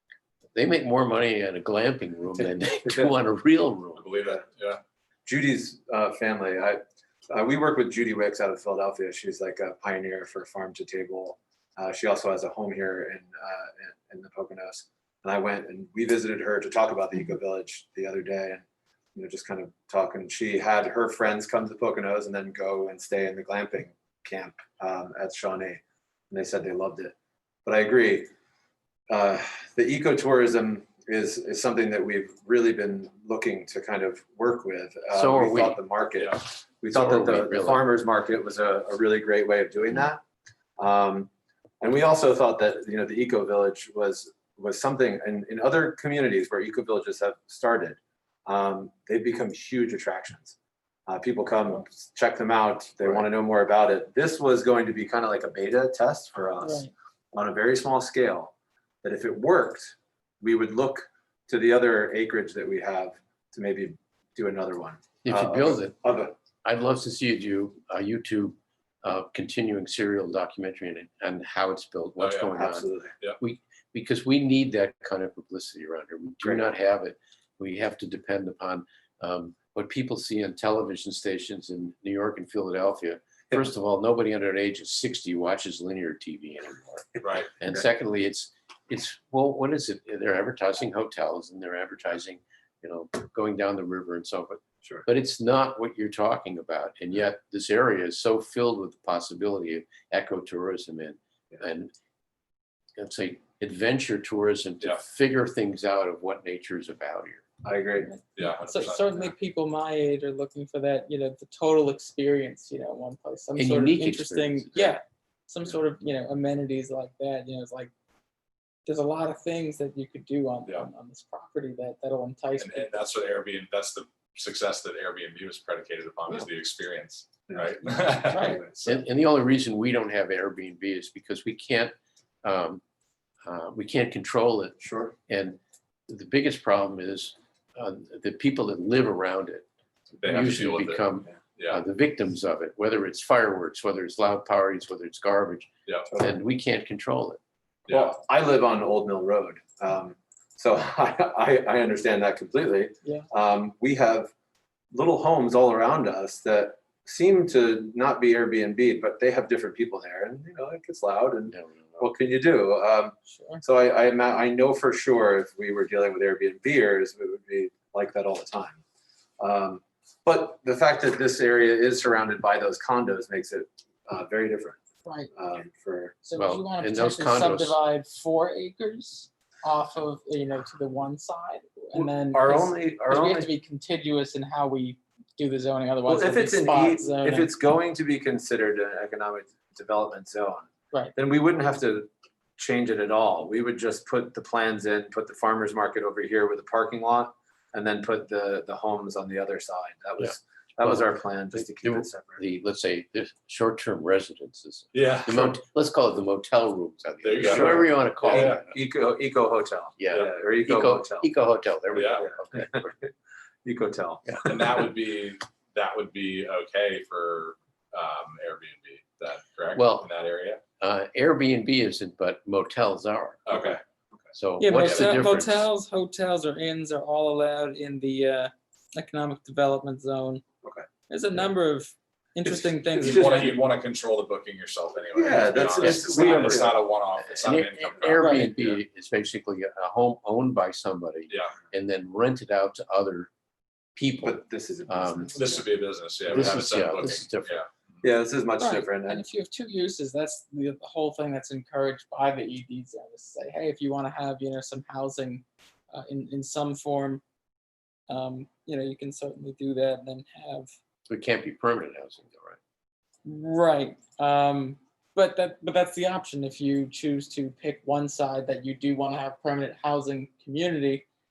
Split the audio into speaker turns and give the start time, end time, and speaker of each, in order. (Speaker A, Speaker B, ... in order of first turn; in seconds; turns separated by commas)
Speaker A: 0.6-4.0, Speaker B: 2.4-3.1, Speaker C: 4.0-4.8, Speaker B: 5.3-6.8, Speaker B: 7.3-18.6, Speaker B: 19.1-25.8, Speaker B: 26.3-27.1, Speaker B: 27.7-28.3, Speaker B: 29.1-40.2, Speaker A: 35.1-35.8, Speaker A: 36.9-37.9, Speaker B: 40.8-41.3, Speaker B: 41.8-50.6, Speaker B: 51.1-66.3, Speaker D: 56.6-56.9, Speaker A: 65.2-66.0, Speaker A: 66.6-72.8, Speaker C: 72.2-72.5, Speaker B: 72.5-73.2, Speaker A: 73.4-101.9, Speaker B: 76.4-76.7, Speaker C: 87.2-87.5, Speaker A: 103.0-107.4, Speaker B: 107.6-108.1, Speaker D: 108.1-117.9, Speaker C: 108.3-109.3, Speaker A: 113.6-115.0, Speaker D: 118.9-122.9, Speaker C: 122.6-129.0, Speaker B: 127.5-128.6, Speaker D: 128.3-128.6, Speaker A: 128.8-132.8, Speaker A: 133.4-134.8, Speaker B: 134.8-135.2, Speaker A: 135.3-139.7, Speaker C: 140.2-141.0, Speaker A: 140.2-147.4, Speaker C: 147.9-148.2, Speaker B: 147.9-154.3, Speaker B: 154.9-168.8, Speaker A: 161.5-162.1, Speaker D: 163.3-163.6, Speaker B: 169.4-174.8, Speaker B: 175.3-176.2, Speaker D: 176.2-187.5, Speaker A: 176.4-177.8, Speaker B: 182.0-183.5, Speaker B: 186.1-202.4, Speaker A: 200.8-208.7, Speaker C: 204.9-205.5, Speaker C: 207.2-208.6, Speaker B: 207.4-211.3, Speaker A: 210.0-212.9, Speaker C: 211.9-212.2, Speaker B: 212.2-213.1, Speaker B: 213.7-214.8, Speaker C: 214.5-220.6, Speaker A: 219.8-220.1, Speaker A: 220.8-223.5, Speaker C: 223.5-223.8, Speaker B: 223.5-223.8, Speaker A: 224.3-225.7, Speaker D: 224.6-230.4, Speaker C: 224.7-225.2, Speaker D: 231.1-233.5, Speaker B: 232.4-233.6, Speaker C: 233.0-238.8, Speaker B: 235.1-236.8, Speaker A: 235.8-243.3, Speaker D: 238.2-238.5, Speaker C: 241.3-241.6, Speaker A: 243.9-245.6, Speaker B: 244.2-245.7, Speaker C: 245.4-248.0, Speaker A: 246.3-247.6, Speaker B: 248.0-249.2, Speaker D: 248.6-257.2, Speaker D: 258.1-260.7, Speaker A: 261.1-262.6, Speaker D: 263.2-271.1